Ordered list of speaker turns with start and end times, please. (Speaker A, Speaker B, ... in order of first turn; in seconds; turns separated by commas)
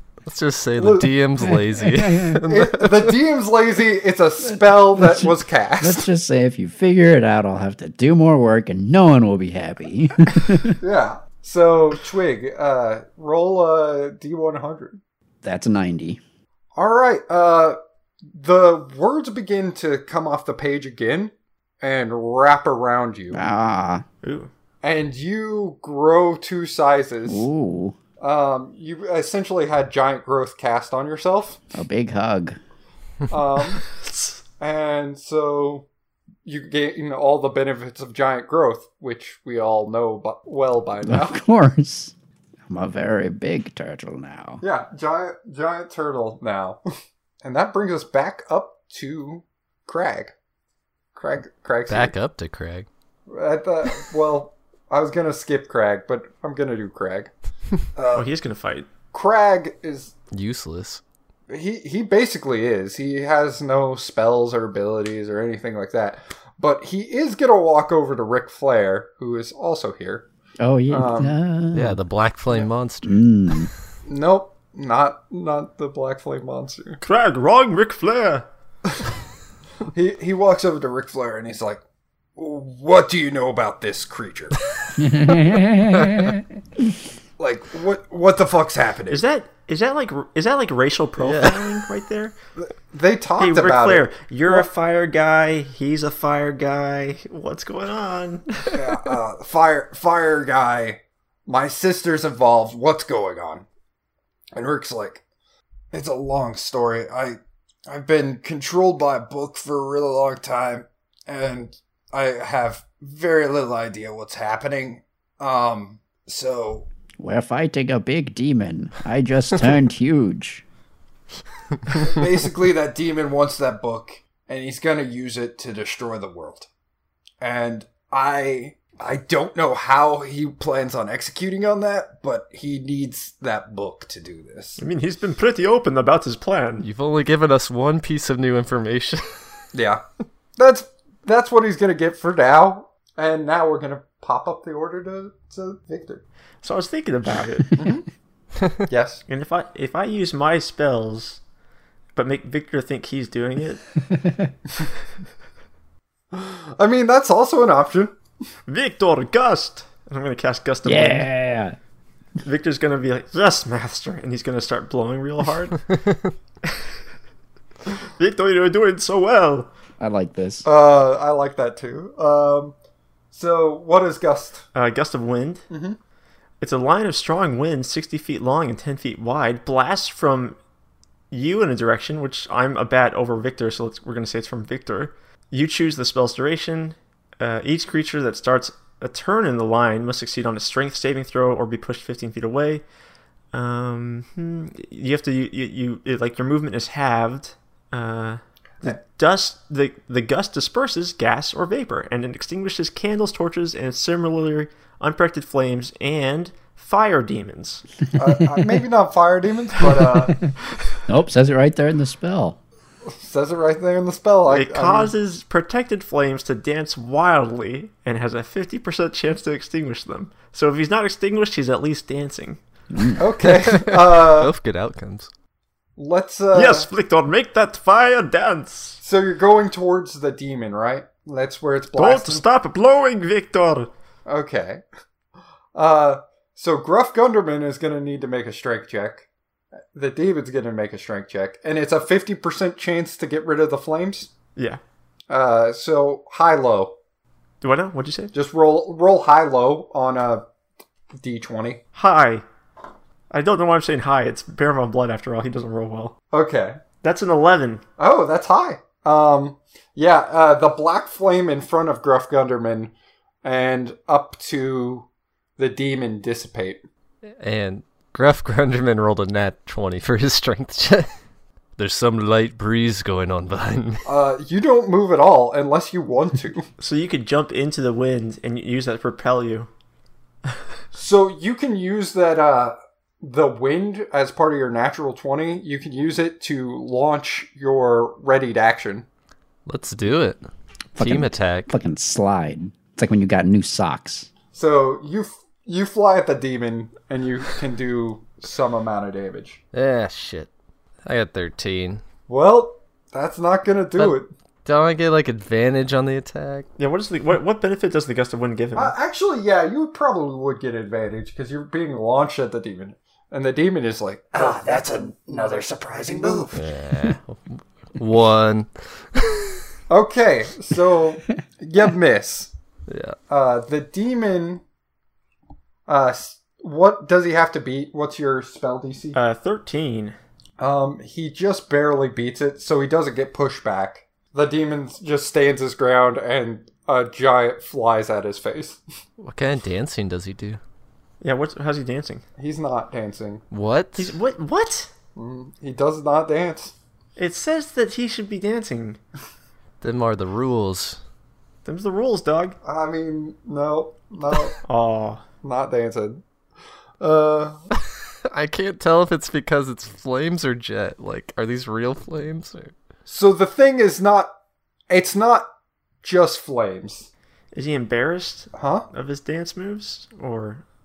Speaker A: 0.3-3.1, Speaker B: 0.8-1.1, Speaker C: 1.9-2.4, Speaker B: 2.5-6.1, Speaker C: 4.5-10.8, Speaker B: 10.8-15.0, Speaker C: 15.4-16.2, Speaker B: 16.8-17.8, Speaker B: 18.3-23.4, Speaker C: 23.3-24.1, Speaker D: 24.2-24.5, Speaker B: 24.8-27.5, Speaker C: 27.3-28.0, Speaker B: 28.2-31.6, Speaker C: 31.7-32.6, Speaker B: 33.3-33.8, Speaker B: 34.6-35.9, Speaker B: 36.5-41.4, Speaker C: 41.0-42.1, Speaker C: 42.7-44.6, Speaker B: 44.6-46.8, Speaker B: 47.4-50.3, Speaker B: 51.1-52.1, Speaker A: 51.9-52.9, Speaker B: 53.3-57.3, Speaker B: 57.9-58.3, Speaker D: 58.1-58.9, Speaker B: 59.1-60.1, Speaker A: 60.3-61.0, Speaker B: 61.5-70.3, Speaker C: 70.6-72.0, Speaker B: 70.9-71.4, Speaker A: 71.7-73.2, Speaker C: 73.0-73.7, Speaker B: 74.1-77.0, Speaker D: 77.0-78.5, Speaker B: 79.9-81.8, Speaker B: 82.4-84.6, Speaker C: 85.0-86.4, Speaker B: 87.4-89.2, Speaker D: 89.1-92.3, Speaker A: 91.2-91.8, Speaker B: 92.6-94.7, Speaker D: 93.4-98.8, Speaker B: 98.7-103.7, Speaker B: 104.5-105.2, Speaker B: 105.9-116.9, Speaker C: 117.2-120.6, Speaker B: 122.0-126.7, Speaker B: 127.4-134.8, Speaker D: 134.8-136.8, Speaker A: 136.8-139.3, Speaker B: 139.7-140.0, Speaker B: 140.6-146.2, Speaker D: 146.6-147.8, Speaker B: 147.8-148.1, Speaker B: 148.9-149.2, Speaker D: 149.3-151.4, Speaker D: 152.2-153.9, Speaker B: 156.3-158.2, Speaker D: 158.7-161.3, Speaker C: 160.8-161.8, Speaker D: 162.4-165.8, Speaker A: 165.9-166.3, Speaker D: 168.2-169.7, Speaker C: 170.0-170.7, Speaker B: 170.7-172.8, Speaker B: 173.3-174.7, Speaker D: 174.7-175.7, Speaker B: 175.7-176.0, Speaker D: 176.6-180.6, Speaker D: 181.3-192.8, Speaker D: 193.5-207.8, Speaker B: 208.2-210.4, Speaker C: 211.1-212.6, Speaker B: 213.1-215.1, Speaker D: 214.5-222.6, Speaker C: 222.9-223.2, Speaker B: 223.2-224.5, Speaker A: 223.5-225.3, Speaker B: 226.0-226.9, Speaker D: 226.5-229.0, Speaker B: 229.0-232.4, Speaker D: 232.0-233.9, Speaker B: 234.3-234.8, Speaker B: 235.8-239.3, Speaker B: 239.9-244.3, Speaker B: 245.3-246.9, Speaker D: 247.6-248.3, Speaker B: 248.3-250.4, Speaker B: 251.2-251.8, Speaker D: 251.9-252.4, Speaker D: 253.3-256.2, Speaker B: 256.3-256.8, Speaker D: 257.0-257.8, Speaker B: 258.0-262.9, Speaker B: 263.4-265.1, Speaker B: 265.6-266.8, Speaker A: 267.4-271.1, Speaker A: 271.8-274.1, Speaker B: 274.1-276.7, Speaker D: 276.8-279.7, Speaker B: 280.9-289.1, Speaker A: 289.7-290.4, Speaker A: 291.0-291.7, Speaker C: 291.0-294.3, Speaker B: 294.5-299.6, Speaker A: 299.7-300.5, Speaker A: 301.1-302.0, Speaker B: 302.3-304.3, Speaker A: 304.0-306.7, Speaker D: 306.8-308.9, Speaker B: 308.8-314.5, Speaker E: 314.3-316.7, Speaker B: 316.1-316.5, Speaker A: 316.6-319.5, Speaker B: 319.9-322.5, Speaker A: 322.9-323.2, Speaker B: 323.3-324.6, Speaker B: 325.9-329.2, Speaker D: 329.1-330.2, Speaker B: 330.6-338.8, Speaker A: 339.2-340.6, Speaker D: 341.2-342.2, Speaker B: 342.4-343.4, Speaker A: 343.5-344.1, Speaker D: 344.0-344.9, Speaker B: 345.2-346.7, Speaker D: 347.2-349.0, Speaker A: 349.8-351.0, Speaker D: 351.6-352.6, Speaker B: 352.6-354.6, Speaker D: 354.6-355.2, Speaker B: 355.4-356.2, Speaker B: 357.0-357.6, Speaker A: 358.3-362.7, Speaker B: 363.1-364.4, Speaker B: 364.9-365.5, Speaker B: 366.0-367.1, Speaker D: 367.5-370.6, Speaker B: 368.6-368.9